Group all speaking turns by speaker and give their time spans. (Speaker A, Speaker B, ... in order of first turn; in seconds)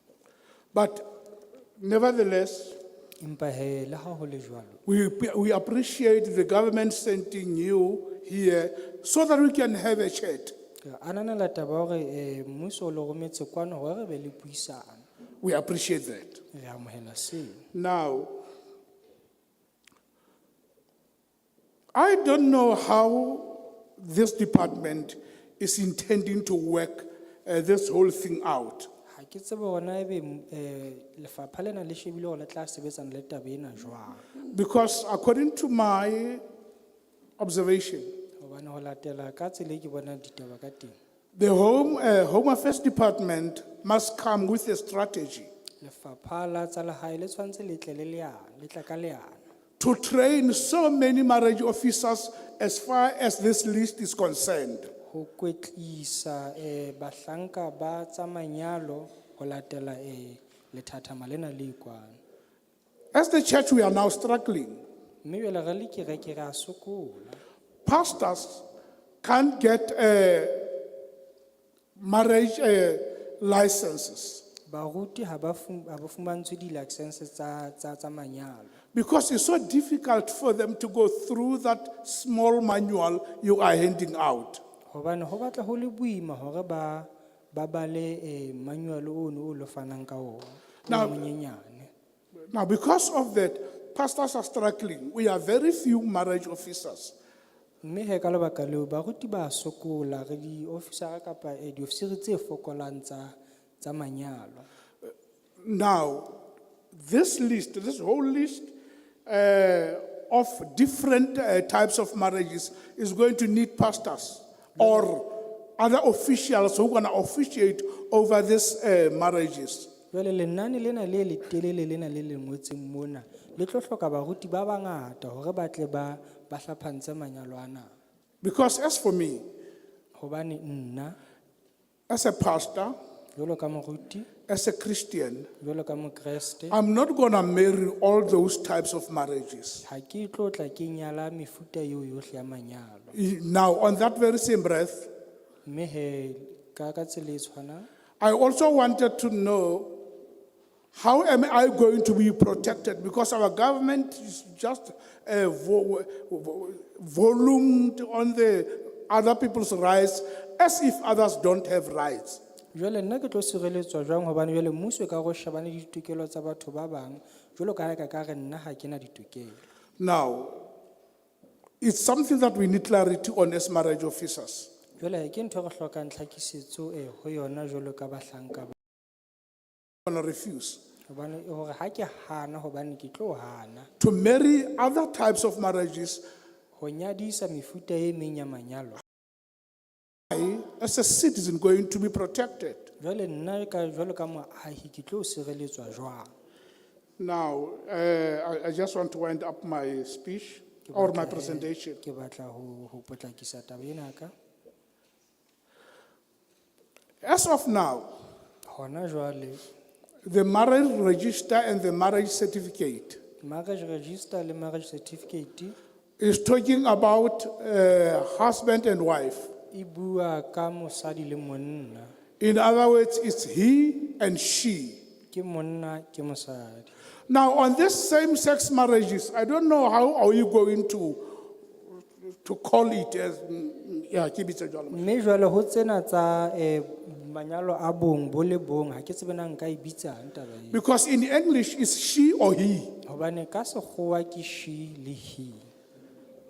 Speaker A: 0.7-1.0, 1.8-2.8, 4.8-10.5, 15.4-16.4, 17.7-18.4, 21.9-28.9, 34.5-36.4, 37.4-38.1, 41.4-45.5, 49.8-54.9, 63.1-64.8, 67.8-68.6, 69.2-70.8, 72.0-74.4, 78.9-84.6, 90.9-91.2, 92.5-97.1, 105.6-106.3, 106.9-108.7, 109.2-119.9, 128.4-129.4, 132.1-132.9, 134.5-135.5, 136.7-139.8, 143.1-145.1, 148.2-150.0, 150.9-162.4, 170.0-170.6, 171.8-174.7, 180.1-180.8, 184.0-186.2, 190.3-192.9, 197.2-202.0, 207.2-208.1, 210.2-213.2, 216.2-219.5, 222.4-225.0, 227.3-231.3, 232.3-235.0, 240.7-242.9
Speaker B: 3.2-4.8, 10.8-15.0, 16.5-17.6, 29.1-34.2, 38.4-41.0, 45.8-49.4, 55.1-62.2, 65.2-67.4, 74.7-78.7, 84.9-91.9, 97.8-104.7, 120.1-127.9, 130.2-131.2, 133.3-134.3, 135.6-136.8, 139.8-143.1, 145.6-147.9, 162.7-169.6, 175.0-178.7, 181.1-183.9, 186.8-189.0, 193.0-196.3, 200.8-204.3, 208.7-209.6, 213.4-215.8, 219.7-222.1, 225.3-226.9, 234.9-240.8, 243.0-245.7